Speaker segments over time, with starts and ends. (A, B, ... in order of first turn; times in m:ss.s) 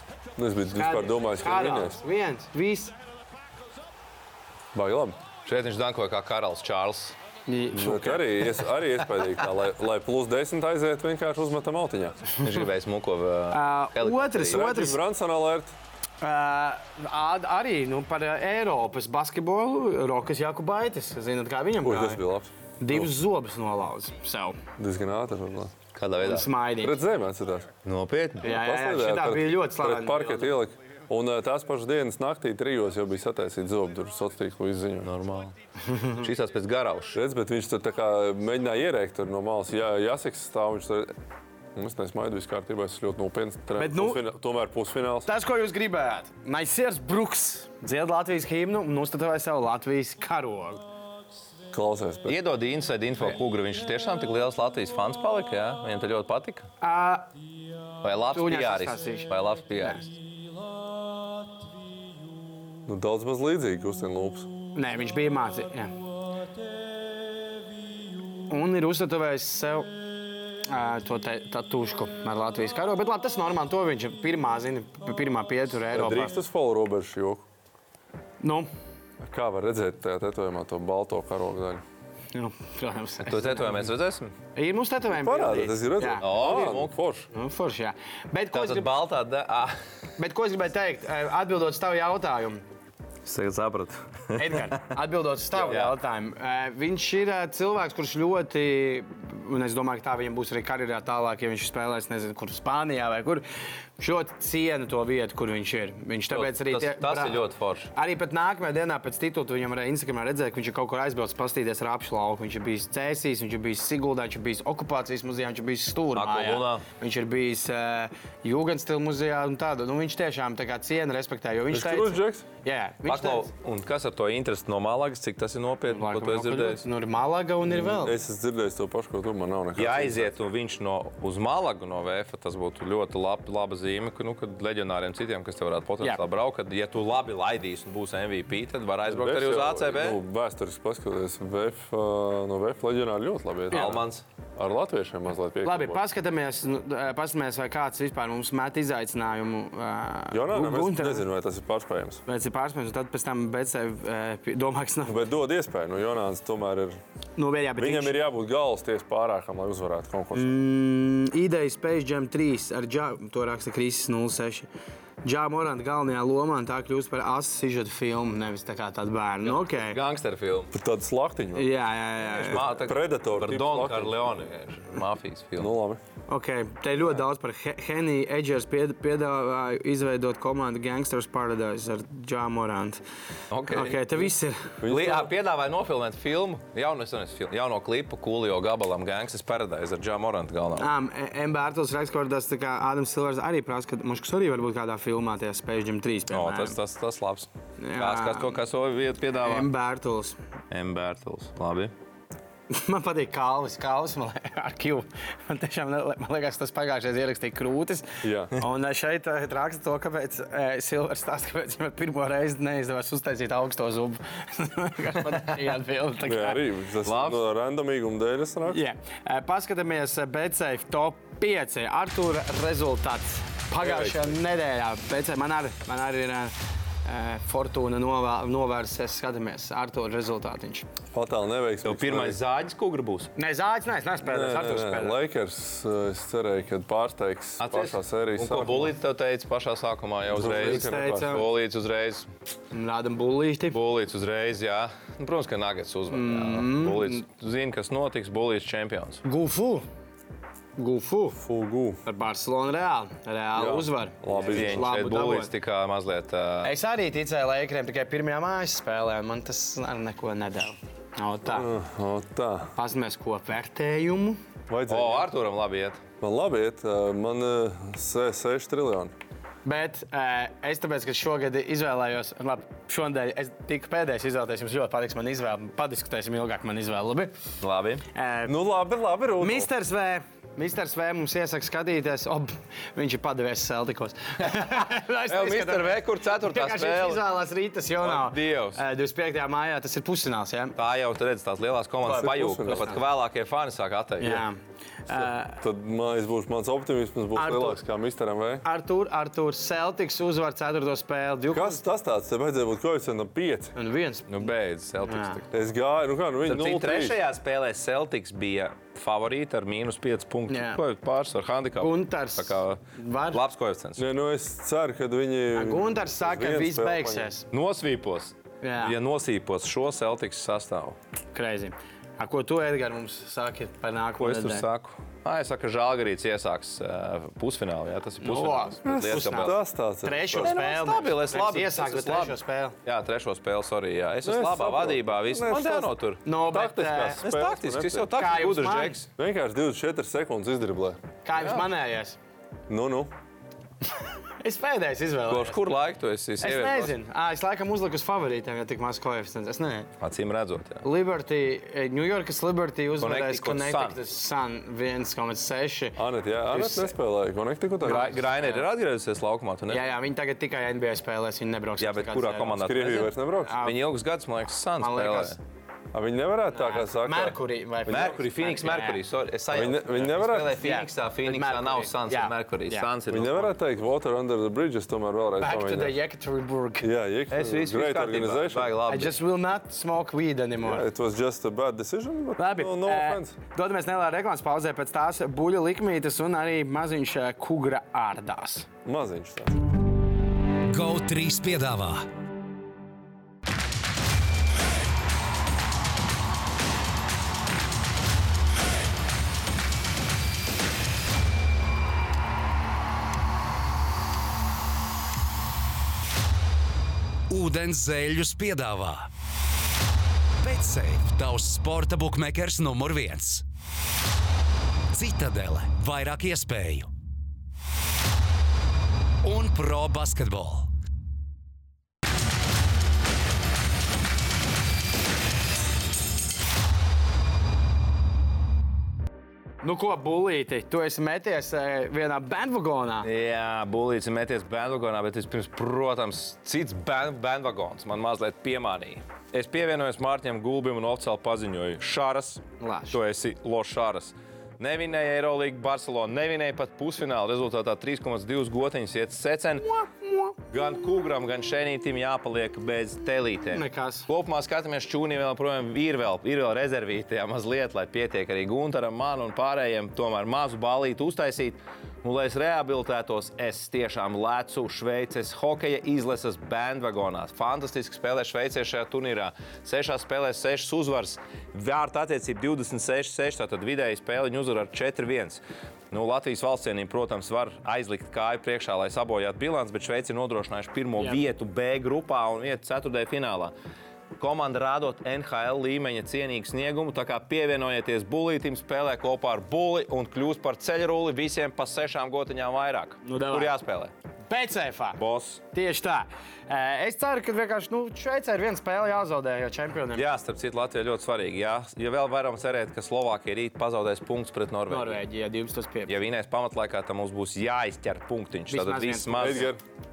0:00.3-0:02.0 A
0:00.6-0:02.9 B
0:04.7-0:05.2 A
0:05.4-0:07.2 C
0:07.5-0:08.4 B
0:07.7-0:12.3 A
0:12.4-0:14.6 C
0:13.5-0:15.0 B
0:14.5-0:15.7 A
0:16.2-0:22.2 B
0:21.8-0:23.1 A
0:22.8-0:24.6 B
0:24.8-0:25.7 A
0:25.9-0:26.5 C
0:26.2-0:27.0 B
0:26.8-0:27.7 A
0:27.8-0:28.5 C
0:28.4-0:30.6 B
0:28.4-0:35.1 A
0:35.0-0:35.5 C
0:35.8-0:36.2 B
0:36.1-0:37.2 C
0:37.1-0:41.1 A
0:41.7-0:45.3 A
0:43.8-0:44.2 B
0:45.2-0:50.8 B
0:51.7-0:52.4 A
0:52.3-0:56.7 C
0:56.8-0:57.3 B
0:58.0-1:00.1 C
0:58.3-1:00.0 B
1:02.9-1:04.5 A
1:04.8-1:05.9 B
1:08.5-1:09.9 B
1:10.7-1:16.4 B
1:15.9-1:17.5 A
1:18.4-1:18.7 B
1:19.2-1:21.8 A
1:22.3-1:23.9 B
1:23.2-1:24.3 C
1:24.5-1:26.3 B
1:25.2-1:27.3 A
1:26.2-1:27.0 C
1:27.3-1:28.9 B
1:28.5-1:29.8 C
1:30.2-1:32.6 B
1:33.2-1:34.8 C
1:34.4-1:43.4 B
1:35.6-1:35.9 C
1:44.0-2:03.5 B
1:46.3-1:47.9 C
1:56.1-1:56.8 C
2:01.7-2:02.4 A
2:03.1-2:06.8 C
2:05.9-2:08.2 B
2:07.6-2:10.3 A
2:09.8-2:20.2 C
2:19.0-2:26.0 A
2:23.7-2:24.2 C
2:23.7-2:24.0 B
2:25.6-2:31.3 B
2:30.3-2:32.2 A
2:32.3-2:35.2 B
2:35.0-2:37.0 A
2:37.4-2:38.2 B
2:37.8-2:40.5 A
2:40.3-2:44.7 B
2:45.2-2:50.0 B
2:49.4-2:50.7 C
2:50.7-2:51.7 A
2:51.6-2:52.6 B
2:52.3-2:54.1 A
2:52.4-2:55.7 C
2:55.6-2:56.0 A
2:56.3-3:03.0 B
3:03.5-3:04.2 C
3:03.7-3:04.8 B
3:04.8-3:05.3 A
3:04.8-3:10.9 C
3:10.8-3:16.8 B
3:16.3-3:19.7 C
3:17.8-3:18.6 B
3:19.4-3:20.4 B
3:20.7-3:21.9 C
3:22.7-3:36.6 B
3:28.2-3:28.5 A
3:36.2-3:38.8 A
3:37.0-3:37.4 C
3:38.7-3:46.5 B
3:43.8-3:44.4 A
3:47.0-3:50.8 B
3:51.1-3:52.4 A
3:51.8-3:53.3 C
3:53.4-3:55.2 B
3:54.2-3:58.9 A
3:57.6-4:02.3 C
4:00.3-4:01.4 A
4:00.4-4:01.4 B
4:02.7-4:03.8 B
4:03.7-4:09.2 C
4:06.1-4:07.2 B
4:09.2-4:09.8 B
4:10.8-4:11.4 B
4:11.4-4:12.0 A
4:12.0-4:15.5 B
4:13.6-4:14.9 A
4:14.5-4:16.7 C
4:16.6-4:21.7 B
4:21.5-4:22.7 A
4:22.8-4:24.4 B
4:24.7-4:25.3 A
4:24.9-4:26.0 C
4:26.2-4:29.1 A
4:29.6-4:37.4 B
4:37.6-4:38.0 C
4:38.1-4:38.6 B
4:38.5-4:39.7 A
4:39.4-4:50.7 B
4:45.3-4:47.2 C
4:48.0-4:48.8 C
4:50.8-4:54.4 C
4:52.0-4:53.0 A
4:52.0-4:53.0 B
4:54.2-4:55.6 B
4:55.6-4:58.6 A
4:57.3-4:57.8 B
4:58.6-5:01.8 B
5:01.5-5:03.7 A
5:03.8-5:04.3 B
5:04.3-5:05.5 C
5:05.0-5:05.4 B
5:05.5-5:07.2 A
5:06.4-5:14.0 C
5:10.5-5:10.8 B
5:11.8-5:13.4 B
5:14.0-5:17.3 A
5:15.5-5:17.5 B
5:17.5-5:21.0 C
5:18.6-5:19.0 B
5:21.3-5:24.6 B
5:24.2-5:29.6 C
5:28.2-5:32.8 B
5:28.8-5:30.5 A
5:30.4-5:36.2 C
5:34.2-5:35.9 A
5:36.2-5:37.2 B
5:36.5-5:38.1 A
5:37.2-5:39.1 C
5:38.1-5:39.0 B
5:39.2-5:41.0 A
5:41.2-5:42.2 B
5:41.3-5:41.6 C
5:42.7-5:43.1 A
5:44.0-5:45.6 B
5:45.3-5:46.9 C
5:46.4-5:49.9 B
5:50.0-5:50.8 C
5:50.8-5:57.0 B
5:53.0-5:54.0 C
5:56.0-5:58.2 A
5:57.8-5:58.6 B
5:57.8-5:59.9 C
5:59.7-6:02.7 B
6:01.8-6:05.4 C
6:02.5-6:03.6 A
6:03.4-6:03.8 B
6:04.8-6:05.4 B
6:05.9-6:07.4 A
6:06.5-6:09.0 B
6:07.9-6:13.6 C
6:09.5-6:10.6 A
6:10.6-6:12.9 B
6:13.1-6:16.0 A
6:15.4-6:16.9 B
6:16.8-6:18.7 A
6:17.3-6:19.2 C
6:18.9-6:20.9 B
6:20.6-6:23.4 A
6:22.4-6:28.7 B
6:28.8-6:29.6 A
6:30.7-6:32.0 D
6:47.3-6:49.1 D
6:50.4-6:53.4 D
6:54.9-6:56.9 D
6:59.2-7:00.7 D
7:09.6-7:13.1 B
7:13.0-7:29.7 C
7:22.6-7:23.0 B
7:29.7-7:30.4 B
7:30.5-8:03.5 C
7:33.5-7:34.1 B
8:04.2-8:13.9 C
8:13.0-8:13.5 B
8:14.3-8:15.0 B
8:15.0-8:15.4 C
8:15.5-8:20.0 B
8:19.9-8:25.0 C
8:24.7-8:25.9 B
8:25.9-8:29.5 C
8:28.5-8:29.5 B
8:29.1-8:29.6 A